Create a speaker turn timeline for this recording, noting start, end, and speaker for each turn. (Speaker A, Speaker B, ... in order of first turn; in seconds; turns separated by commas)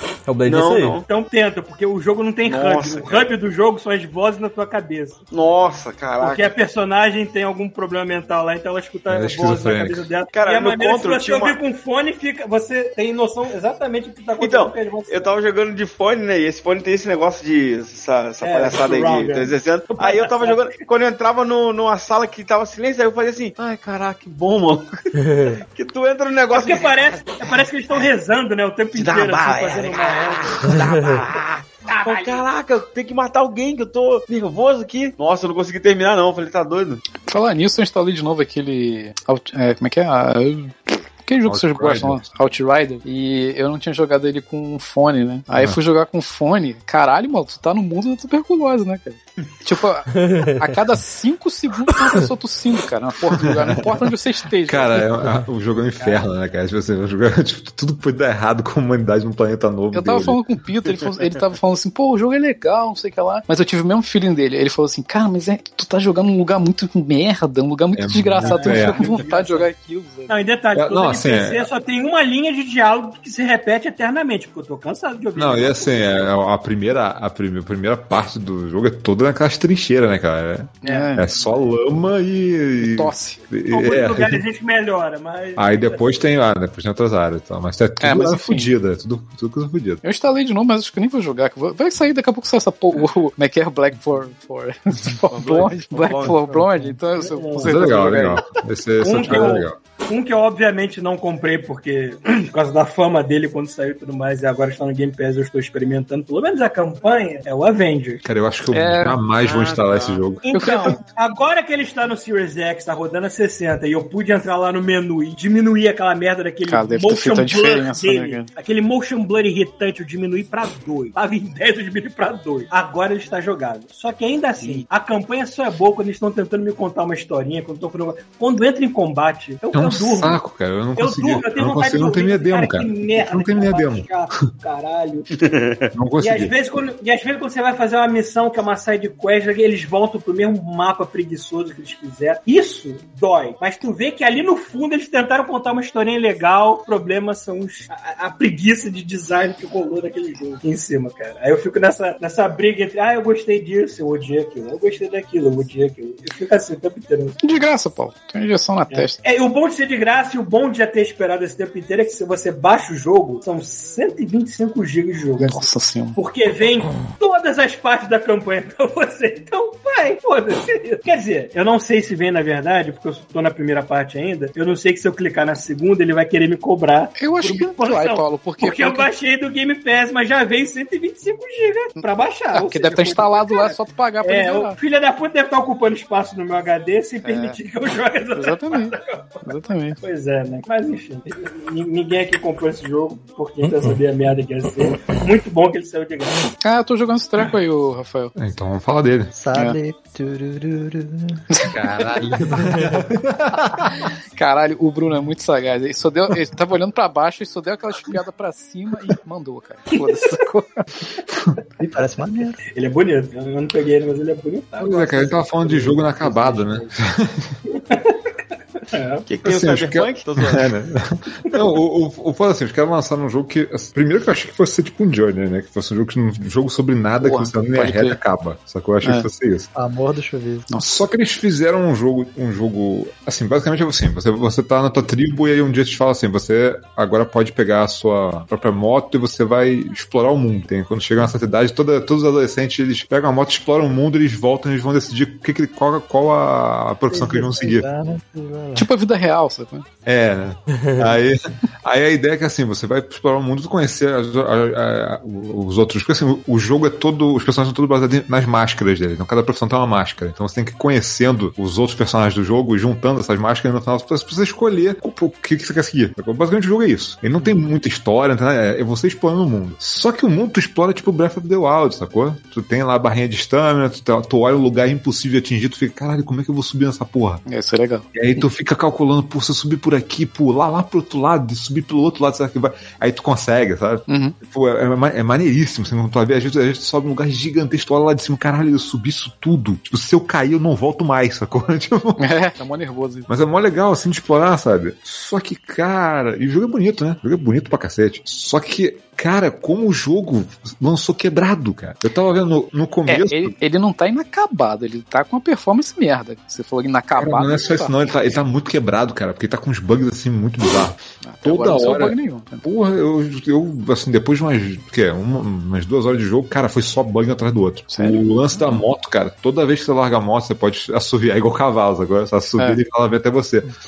Speaker A: 0.3-1.0, Speaker B: 0.5-1.1, Speaker C: 1.1-5.2, Speaker B: 2.5-3.3, Speaker B: 5.3-6.5, Speaker C: 6.2-15.4, Speaker D: 9.1-10.1, Speaker B: 10.3-11.6, Speaker B: 14.4-28.1, Speaker C: 18.4-20.7, Speaker A: 25.1-25.6, Speaker C: 26.5-31.3, Speaker B: 29.0-37.0, Speaker A: 30.7-31.2, Speaker C: 31.9-32.4, Speaker E: 37.3-55.1, Speaker D: 41.4-42.3, Speaker A: 50.2-50.6, Speaker D: 53.4-54.1, Speaker D: 54.7-60.4, Speaker E: 59.9-70.3, Speaker B: 60.9-61.3, Speaker D: 68.0-69.2, Speaker C: 68.4-69.7, Speaker C: 70.3-76.3, Speaker D: 70.7-71.7, Speaker D: 75.4-84.4, Speaker E: 80.8-81.6, Speaker C: 80.8-81.2, Speaker E: 82.8-83.4, Speaker C: 83.7-86.3, Speaker D: 85.6-90.0, Speaker E: 88.0-88.8, Speaker E: 90.0-98.6, Speaker B: 95.3-96.9, Speaker C: 97.2-97.9, Speaker D: 97.6-99.8, Speaker C: 99.0-108.2, Speaker E: 99.2-99.6, Speaker D: 108.2-110.5, Speaker E: 108.7-109.2, Speaker B: 109.4-110.2, Speaker C: 110.5-130.4, Speaker E: 110.5-111.0, Speaker E: 116.7-118.5, Speaker E: 124.6-124.9, Speaker D: 129.7-134.5, Speaker C: 131.0-135.3, Speaker B: 135.4-135.9, Speaker D: 135.9-136.6, Speaker C: 136.2-157.4, Speaker E: 157.4-159.2, Speaker C: 158.9-196.6, Speaker E: 165.4-166.2, Speaker E: 177.2-179.1, Speaker E: 182.5-184.8, Speaker E: 187.2-187.6, Speaker E: 188.3-190.0, Speaker A: 193.6-194.0, Speaker E: 196.6-198.3, Speaker D: 198.4-199.3, Speaker F: 199.3-201.4, Speaker E: 201.5-201.8, Speaker D: 201.6-204.0, Speaker F: 202.6-203.0, Speaker E: 204.4-210.8, Speaker C: 210.0-210.3, Speaker F: 211.8-212.6, Speaker C: 212.8-216.9, Speaker D: 214.8-217.6, Speaker C: 217.7-218.3, Speaker C: 218.9-219.3, Speaker B: 219.3-220.7, Speaker D: 219.4-229.7, Speaker E: 227.2-228.2, Speaker F: 229.8-230.7, Speaker E: 230.7-231.0, Speaker D: 230.9-247.9, Speaker F: 247.1-248.9, Speaker E: 248.8-249.9, Speaker D: 250.1-277.4, Speaker A: 250.7-251.2, Speaker E: 277.5-278.4, Speaker D: 278.1-292.2, Speaker E: 284.1-284.4, Speaker E: 292.2-293.3, Speaker D: 293.3-303.6, Speaker E: 303.1-308.2, Speaker D: 307.2-323.7, Speaker E: 311.2-312.6, Speaker E: 317.9-318.8